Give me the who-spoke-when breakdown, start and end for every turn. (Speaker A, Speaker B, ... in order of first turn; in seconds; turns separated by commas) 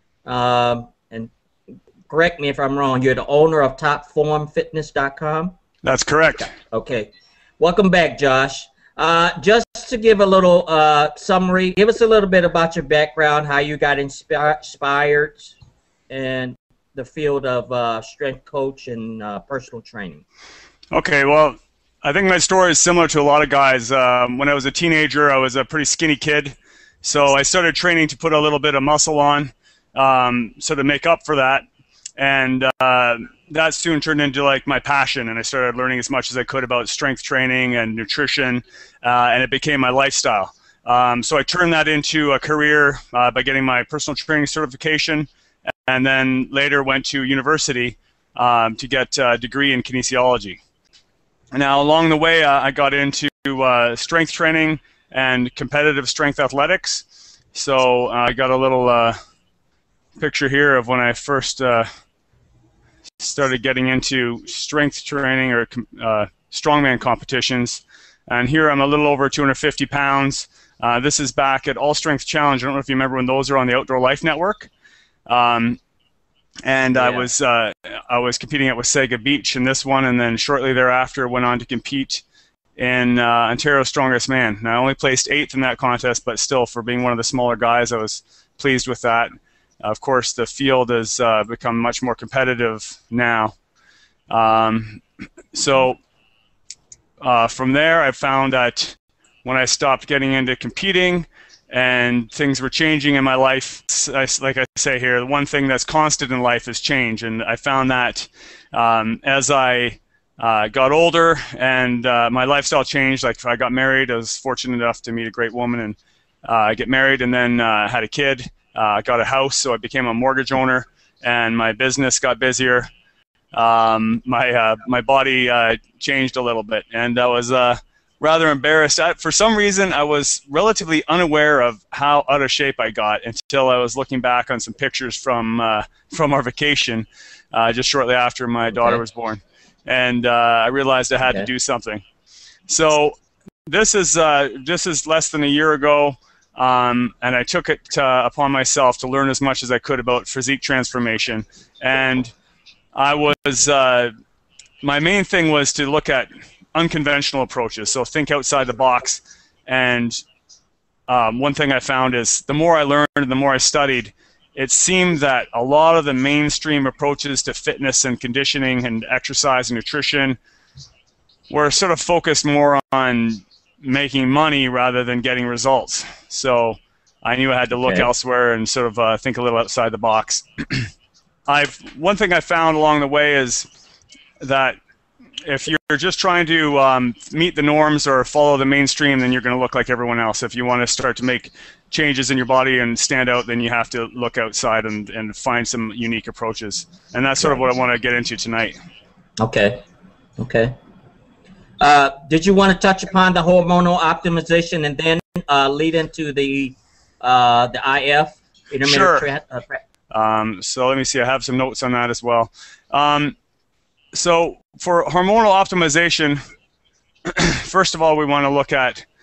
Speaker A: 0.2-1.3, Speaker A: 2.1-5.5, Speaker B: 5.8-6.5, Speaker A: 6.7-15.5, Speaker A: 16.1-20.2, Speaker B: 20.9-31.6, Speaker B: 32.2-45.3, Speaker B: 45.9-50.6, Speaker B: 51.5-59.2, Speaker B: 60.2-61.9, Speaker B: 63.2-74.7, Speaker B: 75.3-75.8, Speaker B: 76.7-82.2, Speaker A: 76.9-77.3, Speaker B: 82.8-93.5, Speaker B: 94.3-95.0, Speaker B: 95.5-96.0, Speaker B: 97.2-122.9, Speaker B: 123.5-142.0, Speaker B: 142.7-143.2, Speaker B: 143.7-152.3, Speaker B: 152.9-154.1, Speaker B: 154.8-160.2, Speaker B: 161.1-170.4, Speaker B: 171.5-180.9, Speaker A: 177.8-178.1, Speaker B: 181.5-183.7, Speaker B: 184.4-184.8, Speaker B: 185.4-198.8, Speaker A: 199.4-199.8, Speaker A: 200.4-200.7, Speaker A: 201.8-209.8, Speaker B: 208.8-209.3, Speaker B: 210.1-213.3, Speaker B: 214.1-216.4, Speaker B: 217.2-219.0